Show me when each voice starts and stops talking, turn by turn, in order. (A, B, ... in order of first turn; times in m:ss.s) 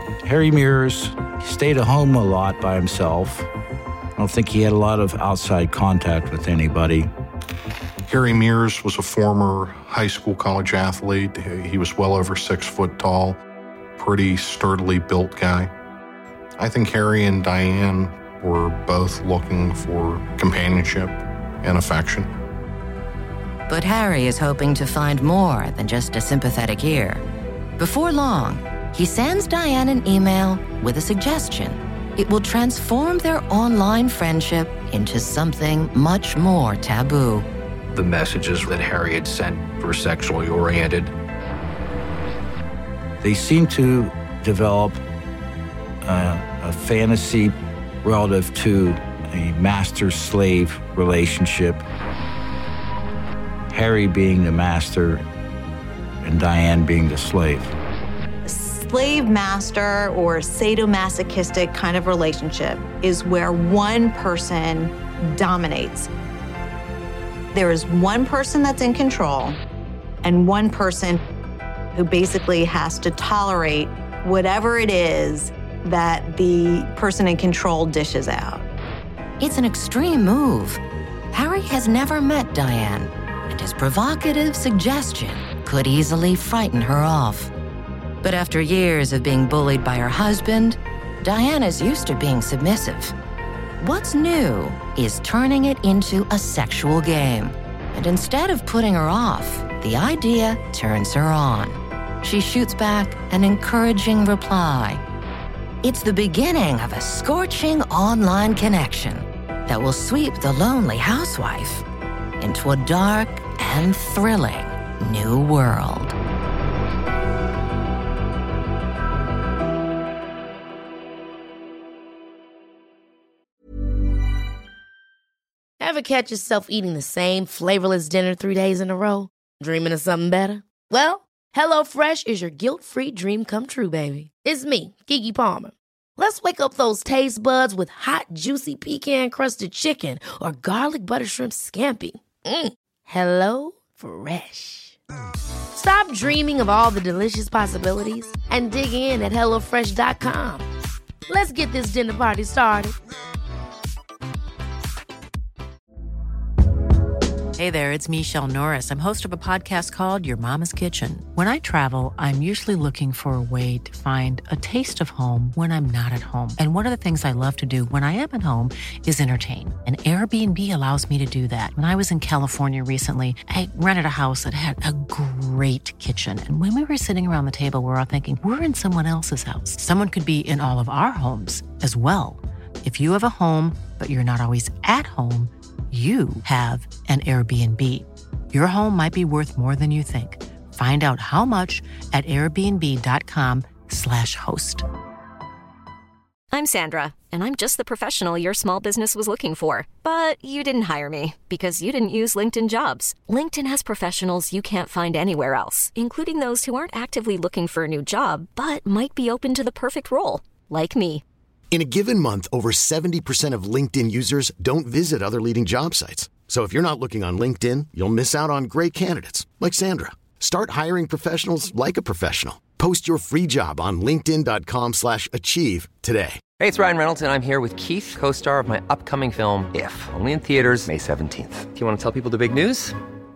0:00.2-0:03.5 A
0:04.2-0:07.1 A
0:08.1-0:13.4 B
0:14.0-0:15.7 B
0:16.6-0:22.3 B
0:23.7-0:27.2 C
0:27.8-0:37.5 C
0:37.9-0:41.1 D
0:43.2-0:45.0 A
0:46.0-0:51.8 A
0:53.7-0:55.2 A
0:56.2-0:57.8 A
0:58.4-1:06.1 E
1:07.5-1:09.6 E
1:10.2-1:11.2 E
1:11.9-1:18.7 E
1:19.4-1:27.5 C
1:28.2-1:33.1 C
1:33.8-1:45.0 C
1:45.8-1:51.8 C
1:52.4-1:56.1 C
2:05.8-2:25.0 F
2:25.7-2:30.7 F
2:31.3-2:33.0 F
2:37.6-3:14.8 G
3:16.5-3:31.2 H
3:31.7-3:46.4 I
3:46.6-3:53.0 J